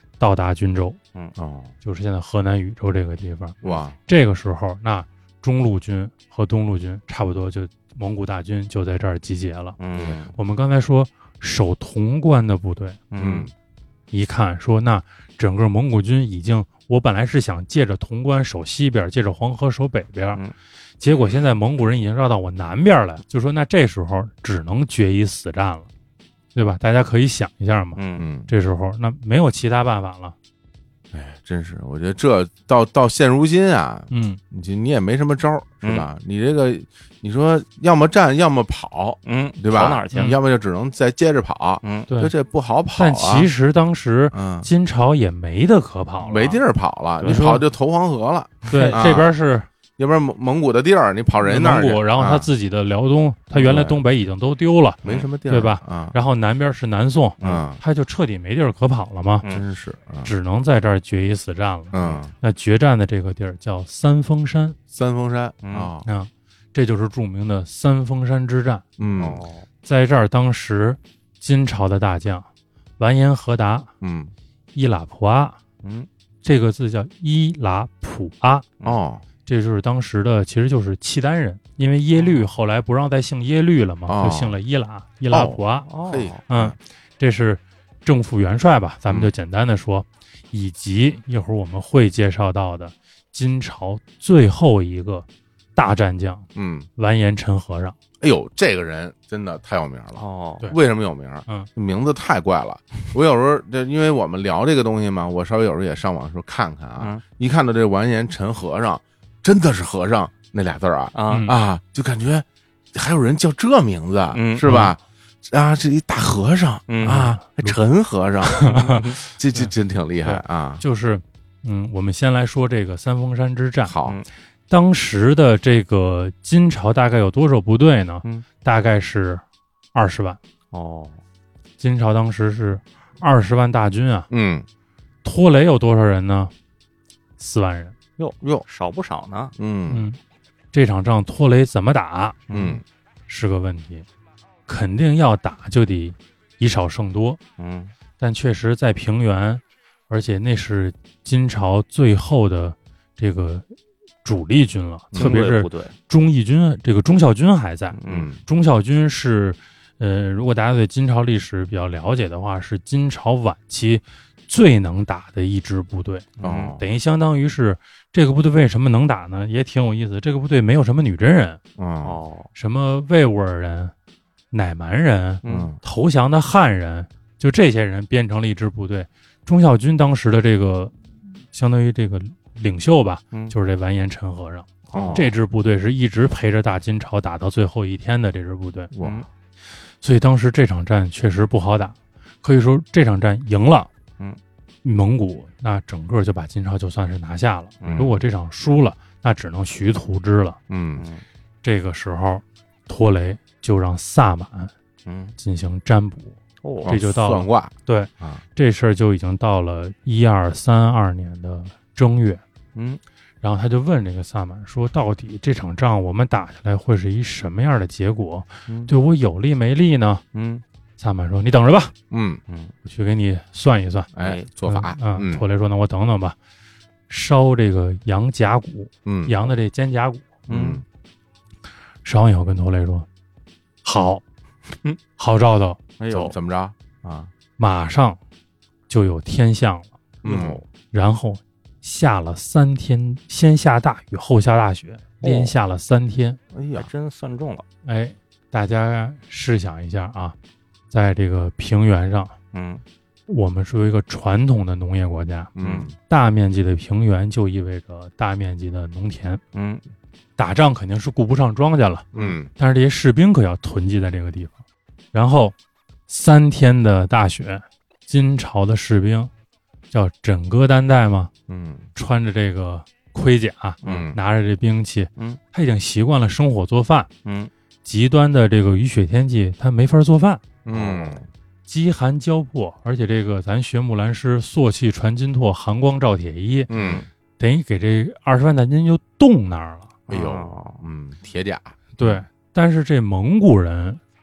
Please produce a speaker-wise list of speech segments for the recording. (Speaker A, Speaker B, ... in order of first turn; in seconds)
Speaker A: 0.2-1.0, 1.8-9.8, 10.3-13.0, 14.1-20.4, 21.0-25.9, 26.6-30.4, 34.1-34.4, 42.9-46.6, 47.2-47.6, 48.7-49.7, 51.5-59.5, 60.2-64.8, 66.0-68.8, 69.8-72.5, 73.0-73.9, 74.8-75.6, 76.4-78.7, 79.5-85.9, 86.5-98.0, 111.3-111.5, 117.0-117.8, 118.5-119.7, 120.2-123.9, 124.7-129.4, 129.9-130.4, 131.8-134.3, 135.2-136.5, 137.4-137.9, 139.9-140.2, 140.7-142.4, 143.3-144.1, 144.7-147.4, 148.2-153.7, 154.2-171.6, 172.6-173.9, 174.5-188.9, 190.0-193.9, 194.8-200.6, 201.6-204.7, 205.4-212.4, 213.4-220.2, 221.0-221.9, 222.8-224.1, 224.7-226.4, 227.1-230.3, 232.1-233.1, 233.8-234.2, 235.2-235.8, 237.6-238.2, 238.9-239.9, 240.9-246.4, 247.8-250.4, 250.9-252.3, 253.3-255.5, 256.1-259.4, 260.4-264.6, 265.1-265.6, 266.1-269.3, 269.9-271.3, 271.9-277.1, 277.9-280.4, 281.7-286.7, 287.4-289.9, 292.0-294.0
Speaker B: 1.4-1.7, 3.6-4.0, 10.0-10.2, 13.2-13.5, 28.2-28.5, 31.1-43.5, 44.3-44.7, 46.2-49.3, 50.0-52.5, 53.5-54.0, 55.0-56.2, 57.4-57.8, 59.5-60.3, 61.9-62.3, 64.9-66.1, 69.0-69.4, 74.0-74.3, 78.8-79.2, 84.1-84.6, 85.3-86.8, 96.5-96.9, 98.2-120.8, 123.9-124.2, 134.3-134.7, 138.4-138.7, 139.6-140.0, 142.5-142.8, 158.1-158.4, 166.4-166.8, 171.8-172.2, 175.5-175.8, 184.9-185.3, 188.9-189.2, 197.8-198.1, 200.7-201.1, 206.8-208.4, 222.1-222.4, 224.1-225.4, 229.1-229.3, 230.5-230.8, 236.1-237.3, 240.2-240.6, 246.5-246.9, 255.6-255.9, 262.1-262.5, 271.5-271.9, 273.8-274.2, 280.6-281.2, 286.7-287.1, 290.1-292.0
Speaker C: 9.8-10.3, 13.1-13.5, 28.0-28.3, 35.8-36.1, 39.3-40.3, 41.8-42.1, 48.7-49.0, 65.6-65.9, 69.2-69.7, 75.8-76.1, 82.2-82.5, 85.9-86.4, 100.2-100.7, 111.2-111.5, 114.3-114.7, 116.9-117.3, 118.8-119.1, 130.7-131.2, 138.2-139.5, 142.5-142.8, 147.6-147.9, 155.2-155.9, 157.9-158.3, 166.4-166.8, 172.0-172.5, 175.4-175.7, 184.9-185.3, 189.0-189.3, 197.8-198.1, 201.0-201.2, 205.1-205.3, 206.6-206.9, 212.8-213.0, 220.3-220.6, 224.2-224.5, 230.5-230.8, 236.0-236.4, 240.2-240.6, 245.2-245.5, 246.8-247.7, 252.5-252.8, 255.6-255.9, 259.5-259.8, 273.8-274.1, 277.2-277.5, 280.7-281.3, 286.7-287.1, 290.1-290.8